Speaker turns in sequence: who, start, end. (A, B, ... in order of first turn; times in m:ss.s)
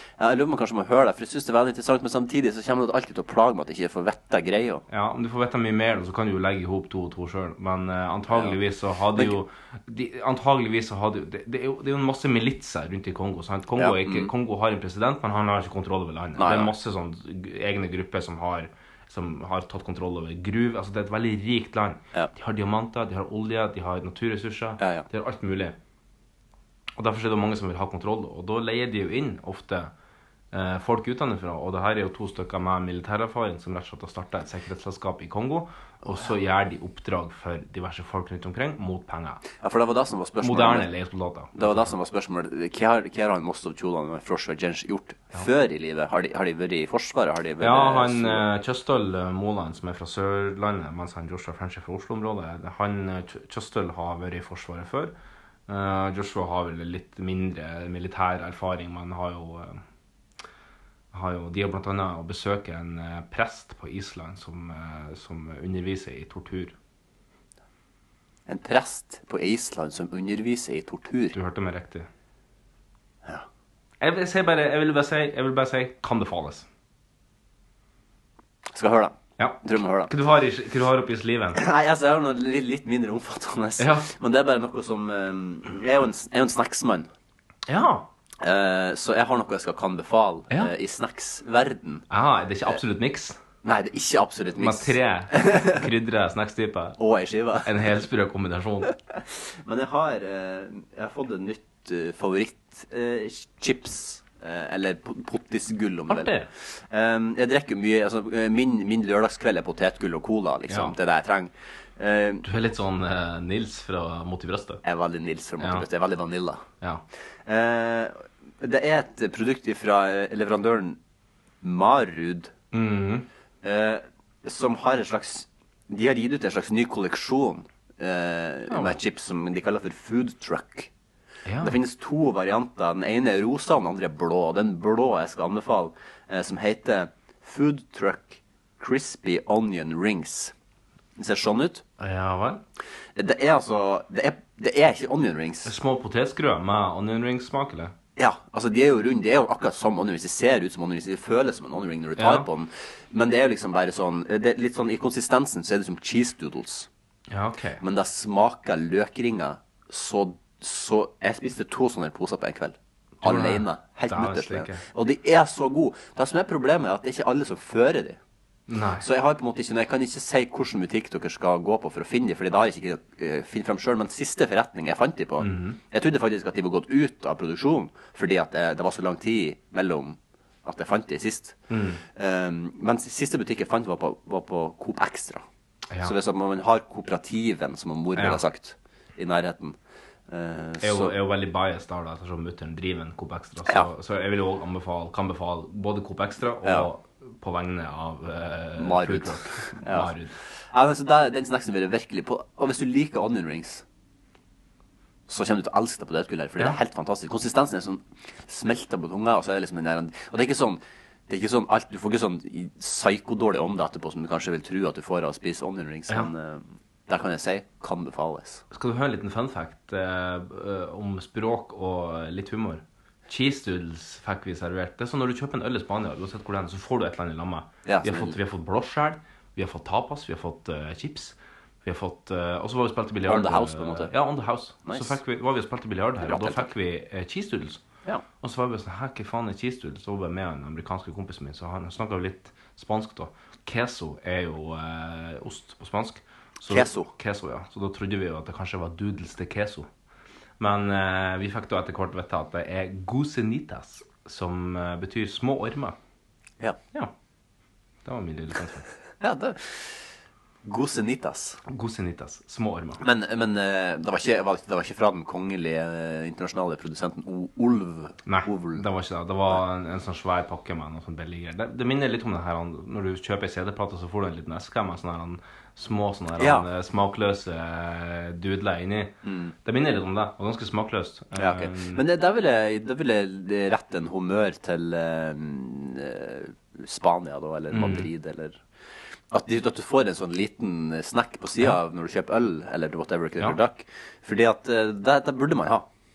0:00.2-0:04.8 A
0:04.9-0:25.8 B
0:08.3-0:08.6 A
0:13.8-0:14.3 A
0:16.4-0:16.7 A
0:24.8-0:25.1 A
0:27.0-0:29.9 B
0:30.5-0:39.4 B
0:39.6-0:40.9 A
0:40.4-0:41.9 B
0:41.6-0:48.4 A
0:47.6-0:55.2 B
0:55.7-0:59.8 B
1:01.1-1:06.7 B
1:08.5-1:11.4 A
1:11.3-1:12.1 B
1:14.0-1:16.7 B
1:18.7-1:20.1 A
1:19.4-1:21.6 B
1:21.6-1:27.1 A
1:23.8-1:24.1 B
1:27.7-1:28.1 B
1:28.4-1:32.1 A
1:32.1-1:33.4 B
1:33.6-1:35.8 A
1:34.6-1:37.0 B
1:37.0-1:37.7 A
1:37.6-1:38.9 B
1:39.3-1:52.4 A
1:46.1-1:46.5 B
1:50.7-1:51.0 B
1:52.4-1:54.8 B
1:54.8-1:56.6 A
1:55.6-1:55.9 B
1:57.4-2:01.0 A
2:01.6-2:02.5 A
2:02.7-2:03.3 B
2:03.6-2:10.9 A
2:08.7-2:09.0 B
2:11.4-2:11.8 B
2:11.6-2:20.5 A
2:21.2-2:21.8 A
2:22.0-2:22.6 B
2:23.2-2:25.7 A
2:25.6-2:27.9 B
2:28.2-2:36.9 A
2:32.2-2:32.4 B
2:37.3-2:37.8 B
2:37.8-2:48.2 A
2:43.2-2:44.8 B
2:48.7-2:49.1 B
2:49.0-3:01.6 A
2:55.4-2:55.8 B
3:01.7-3:02.0 B
3:02.2-3:05.4 A
3:06.0-3:09.8 A
3:08.2-3:08.4 B
3:10.3-3:11.1 A
3:10.8-3:20.3 B
3:16.6-3:16.9 A
3:18.8-3:20.1 A
3:20.7-3:23.8 A
3:25.3-3:38.6 A
3:36.1-3:36.3 B
3:38.7-3:57.8 B
3:47.8-3:48.4 A
3:53.3-3:54.1 A
3:54.8-3:55.2 A
3:56.2-3:56.7 A
3:58.4-4:09.9 B
4:06.7-4:07.1 A
4:10.6-4:16.0 B
4:18.0-4:18.9 B
4:19.2-4:20.0 A
4:20.6-4:21.6 A
4:21.7-4:23.0 B
4:23.0-4:28.8 A
4:28.3-4:42.0 B
4:36.4-4:36.6 A
4:39.2-4:39.5 A
4:41.4-4:48.6 A
4:47.7-4:48.1 B
4:49.3-4:55.9 A